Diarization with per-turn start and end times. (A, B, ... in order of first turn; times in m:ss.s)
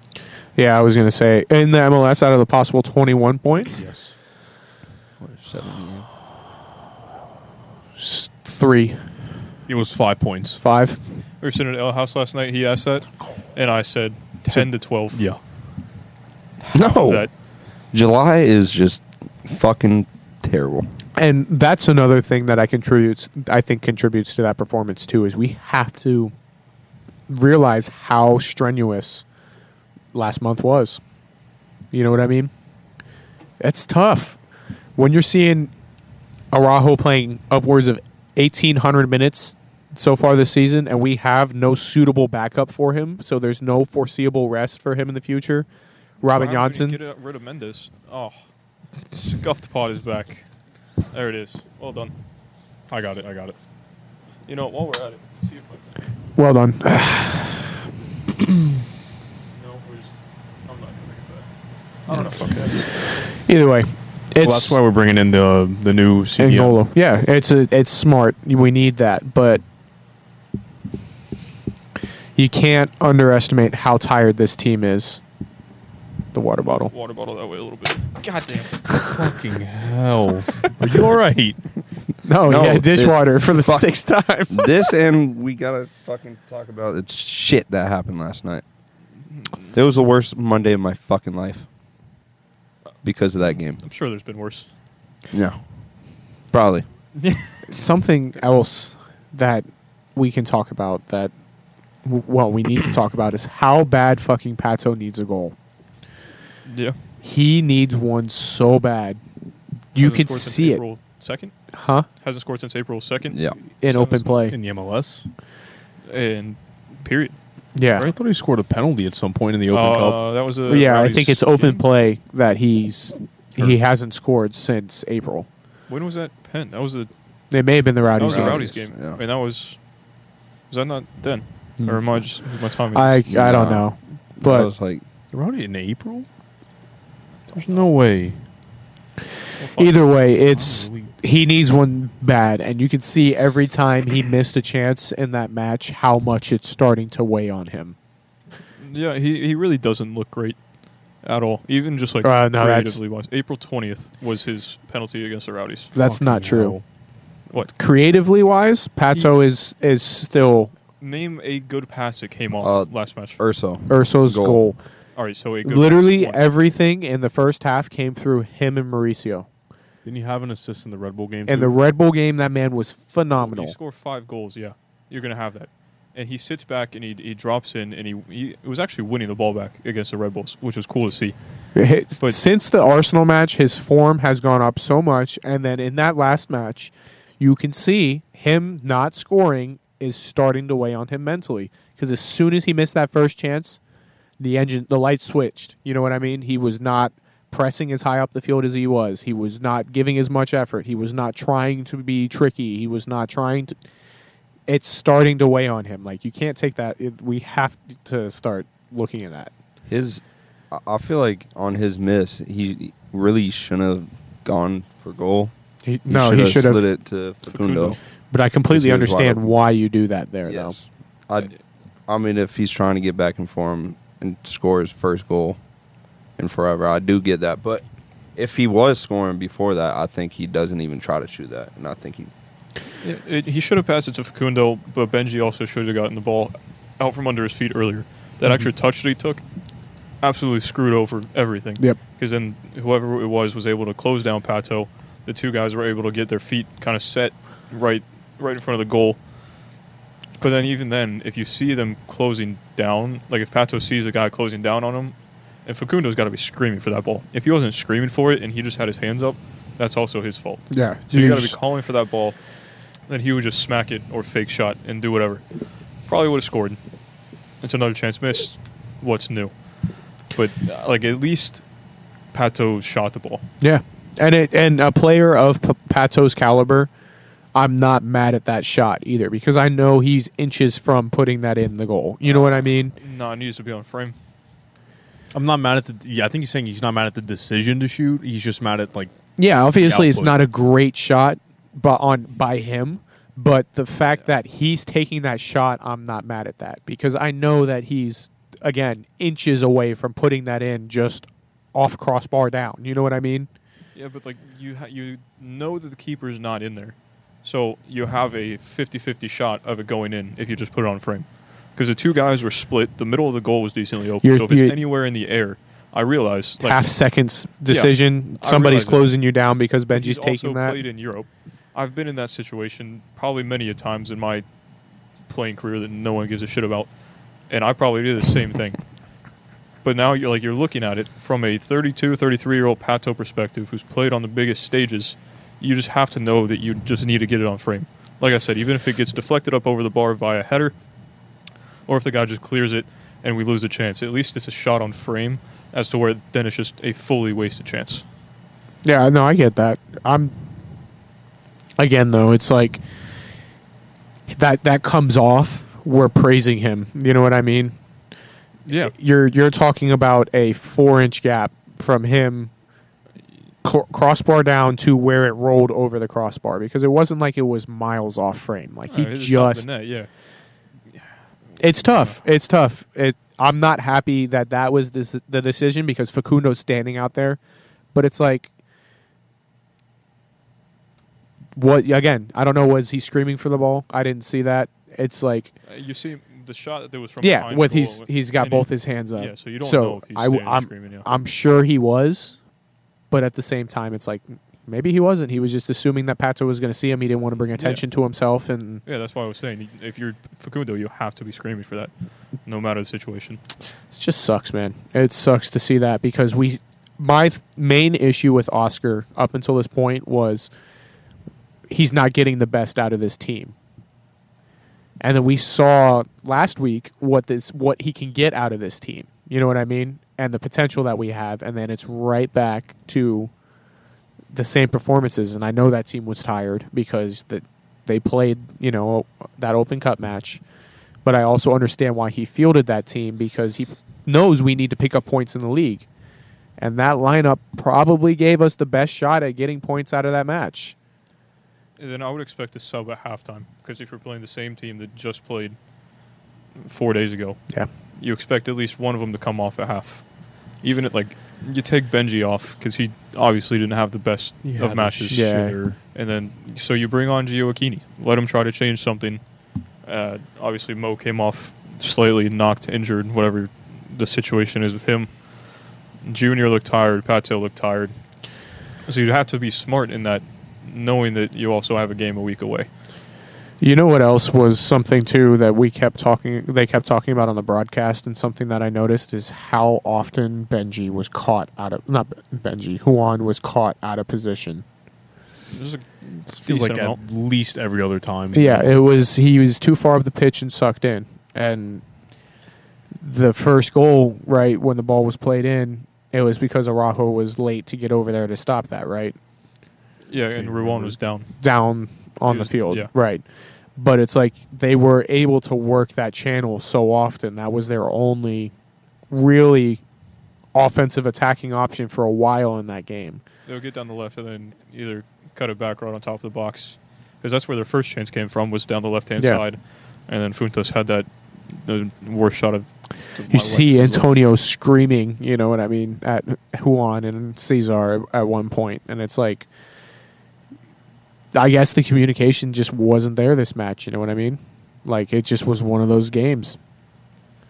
0:00.6-0:03.8 A
0:03.7-0:04.2 B
0:05.2-0:06.1 C
0:08.0-0:09.0 A
0:09.7-0:10.6 B
0:10.6-0:11.0 A
0:11.4-0:15.2 D
0:14.5-0:15.4 B
0:16.6-0:17.3 D
0:16.7-0:17.3 C
0:17.9-0:20.9 C
0:21.2-0:26.3 A
0:27.3-0:29.2 A
0:30.1-0:31.0 A
0:31.9-0:32.5 A
0:33.6-0:34.4 A
0:35.0-0:35.7 A
0:36.5-0:45.7 A
0:46.2-0:47.0 A
0:46.2-0:48.4 D
0:49.1-0:50.5 D
0:51.1-0:52.1 D
0:52.9-0:53.6 B
0:54.5-0:55.8 D
0:56.4-0:57.8 A
0:59.5-1:01.5 D
1:02.1-1:02.8 D
1:02.1-1:02.8 B
1:03.2-1:04.8 A
1:04.4-1:06.8 B
1:06.4-1:09.6 A
1:12.4-1:15.2 A
1:16.3-1:16.9 A
1:16.6-1:18.8 D
1:19.0-1:21.7 B
1:22.2-1:24.8 A
1:22.4-1:23.9 C
1:24.5-1:28.6 C
1:29.7-1:31.7 C
1:33.0-1:33.8 C
1:33.5-1:34.7 D
1:35.3-1:35.6 C
1:36.5-1:36.9 C
1:37.2-1:37.6 D
1:37.7-1:41.3 A
1:42.0-1:45.6 A
1:46.7-1:47.0 D
1:47.2-1:49.2 A
1:49.9-1:50.8 A
1:50.0-1:51.5 D
1:51.7-1:52.1 A
1:52.2-1:54.4 D
1:53.3-1:53.6 C
1:53.8-1:54.6 A
1:54.5-1:55.3 B
1:56.1-1:57.4 D
1:57.8-1:58.1 A
1:58.0-2:00.2 B
1:59.7-2:01.8 D
2:00.7-2:05.5 A
2:05.9-2:07.1 D
2:07.5-2:08.7 A
2:08.2-2:09.8 D
2:08.2-2:09.2 C
2:10.7-2:13.2 D
2:12.9-2:14.7 A
2:13.3-2:13.9 C
2:14.4-2:15.0 C
2:15.3-2:16.3 B
2:17.5-2:18.4 B
2:19.6-2:20.0 D
2:19.8-2:28.0 A
2:20.5-2:21.1 B
2:28.8-2:30.6 D
2:31.2-2:35.9 D
2:32.2-2:33.0 A
2:35.9-2:36.8 A
2:36.0-2:36.8 B
2:37.7-2:40.7 A
2:39.1-2:39.4 D
2:41.0-2:43.4 D
2:42.6-2:44.6 C
2:43.9-2:44.8 A
2:45.2-2:46.4 D
2:45.6-2:49.5 A
2:50.0-2:51.8 B
2:51.5-2:53.8 A
2:53.4-3:01.4 D
3:01.8-3:13.8 A
3:14.4-3:23.8 A
3:24.7-3:29.5 A
3:29.9-3:35.5 C
3:35.8-3:36.8 A
3:36.1-3:38.0 C
3:37.5-3:38.0 D
3:38.3-3:40.8 A
3:38.7-3:39.5 C
3:40.5-3:41.6 C
3:42.1-3:45.6 C
3:46.4-3:47.8 C
3:48.4-3:52.3 C
3:53.0-3:59.4 D
4:00.2-4:09.2 D
4:10.4-4:22.4 D
4:20.7-4:21.6 A
4:23.1-4:25.4 D
4:26.0-4:26.8 D
4:27.6-4:29.5 D
4:30.3-4:31.6 D
4:32.3-4:33.4 D
4:33.6-4:36.9 A
4:37.6-4:42.9 A
4:42.2-4:44.2 D
4:45.3-4:49.1 B
4:49.4-5:03.5 A
4:49.7-4:50.4 B
5:04.0-5:16.9 D
5:14.2-5:14.8 A
5:16.6-5:20.8 A
5:17.7-5:19.1 D
5:19.9-5:24.5 D
5:25.3-5:26.9 D
5:27.5-5:28.8 D
5:29.8-5:40.8 D
5:41.9-5:48.0 D
5:48.8-5:50.4 A
5:51.8-5:52.8 A
5:54.3-5:57.8 A
5:58.7-5:58.9 D
5:58.8-6:02.5 A
6:03.6-6:09.7 A
6:08.9-6:10.1 D
6:11.6-6:17.4 A
6:11.8-6:12.2 D
6:17.9-6:18.5 A
6:21.6-6:25.5 A
6:25.7-6:31.1 D
6:27.2-6:32.4 A
6:33.1-6:38.8 A
6:37.6-6:37.8 D
6:38.9-6:41.9 D
6:42.5-6:43.4 D
6:43.9-6:50.5 A
6:51.7-6:53.6 A
6:55.0-7:03.3 A
7:04.3-7:10.4 A
7:11.0-7:15.9 A
7:16.6-7:20.8 A
7:21.8-7:25.6 D
7:26.6-7:27.4 D
7:28.0-7:30.1 D
7:30.6-7:35.4 D
7:34.4-7:35.8 B
7:35.1-7:35.6 A
7:35.9-7:39.2 D
7:39.8-7:45.1 D
7:46.0-7:48.0 D
7:48.9-7:52.7 D
7:53.6-8:04.6 A
8:05.5-8:07.0 D
8:06.3-8:08.7 B
8:08.3-8:11.8 A
8:13.0-8:19.2 A
8:20.1-8:21.3 D
8:20.4-8:21.0 B
8:21.4-8:23.2 A
8:22.3-8:22.9 D
8:23.8-8:28.5 A
8:29.1-8:29.8 A
8:30.6-8:33.2 A
8:33.5-8:44.1 D
8:43.3-8:49.5 A
8:51.3-8:56.6 A